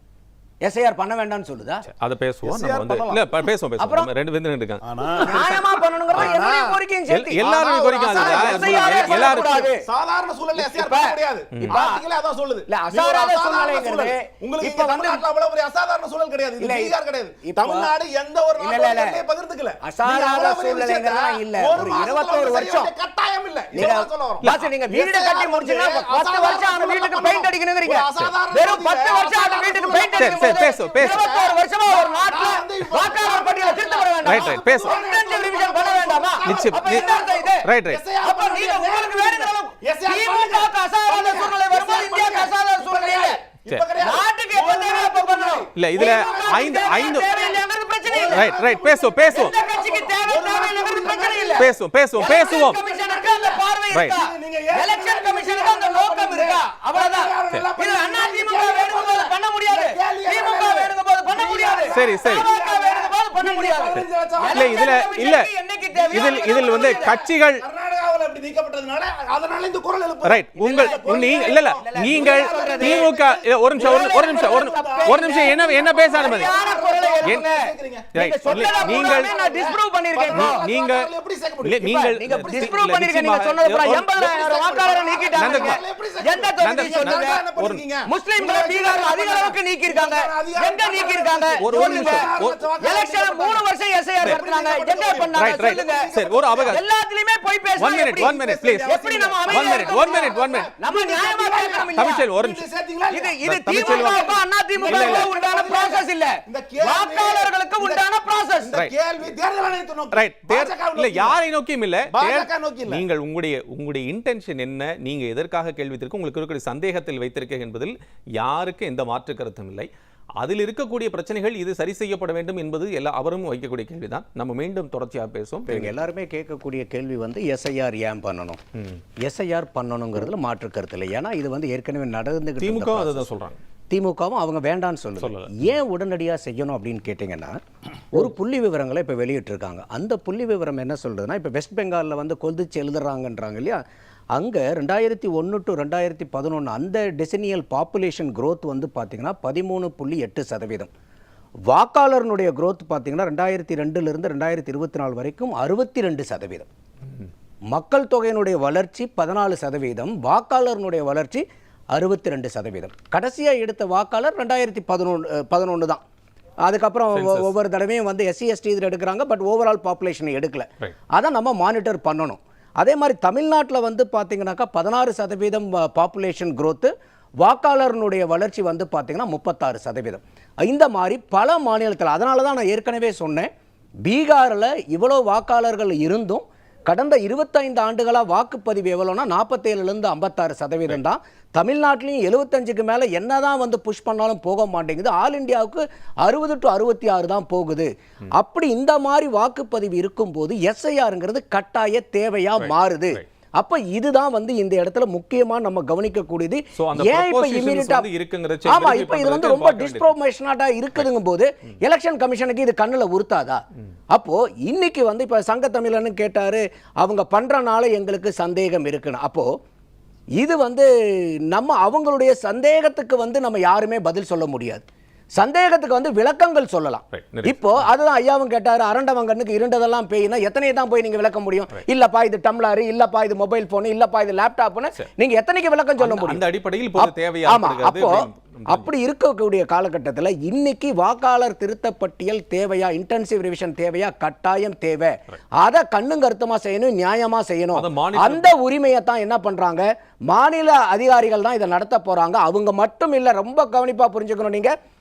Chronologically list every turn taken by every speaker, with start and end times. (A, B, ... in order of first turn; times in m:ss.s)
0:00.6-0:01.8 A
0:01.8-0:05.2 B
0:02.4-0:03.3 C
0:03.8-0:04.1 A
0:04.8-0:06.8 C
0:05.1-0:07.4 A
0:07.1-0:09.7 B
0:07.4-1:05.0 C
0:08.1-0:09.8 A
0:10.6-0:11.2 A
0:11.7-0:12.0 A
0:12.7-0:15.2 A
0:16.6-0:17.9 A
0:18.6-0:19.2 A
0:19.8-0:22.9 A
0:23.7-0:37.7 A
0:24.4-0:24.7 B
0:30.2-0:31.2 B
0:34.2-0:35.0 B
0:36.4-0:37.1 B
0:37.6-0:38.0 B
0:38.2-0:43.4 A
0:44.0-0:48.6 A
0:45.8-0:47.3 B
0:48.3-0:49.5 B
0:49.3-1:07.1 A
0:51.6-0:52.8 B
0:53.9-0:54.2 B
1:01.9-1:02.4 B
1:03.9-1:05.5 B
1:05.9-1:22.7 C
1:06.1-1:07.6 B
1:10.2-1:16.5 B
1:10.6-1:13.1 A
1:13.8-1:20.6 A
1:18.1-1:19.3 B
1:20.3-1:21.1 B
1:21.6-1:24.1 B
1:21.8-1:27.4 A
1:24.2-1:33.6 C
1:25.4-1:25.8 B
1:26.6-1:27.8 B
1:28.0-1:32.3 A
1:31.6-1:32.6 B
1:32.8-1:36.1 A
1:34.2-1:36.8 C
1:35.3-1:36.8 B
1:36.7-1:42.3 A
1:37.8-1:40.7 B
1:38.0-1:48.0 C
1:41.9-1:42.6 B
1:43.1-1:48.7 A
1:43.4-1:44.3 B
1:44.9-1:45.3 B
1:48.6-1:51.4 C
1:50.1-1:59.9 B
1:52.1-1:53.0 C
2:00.4-2:05.9 B
2:05.7-2:08.6 A
2:09.2-2:13.3 A
2:12.6-2:13.6 B
2:13.9-2:17.6 A
2:15.2-2:15.7 B
2:18.1-2:23.8 A
2:24.3-2:30.9 A
2:31.7-2:36.7 A
2:37.7-2:46.0 A
2:46.6-2:56.9 A
2:47.1-2:47.5 B
2:57.4-3:03.5 A
3:04.0-3:28.1 A
3:22.6-3:23.2 B
3:26.8-3:30.1 B
3:28.6-3:33.6 A
3:34.1-3:39.5 A
3:40.4-3:40.9 A
3:41.5-3:44.8 A
3:45.4-3:56.4 A
3:47.1-3:47.9 B
3:56.0-3:58.9 B
3:56.9-4:14.7 A
4:07.7-4:08.5 B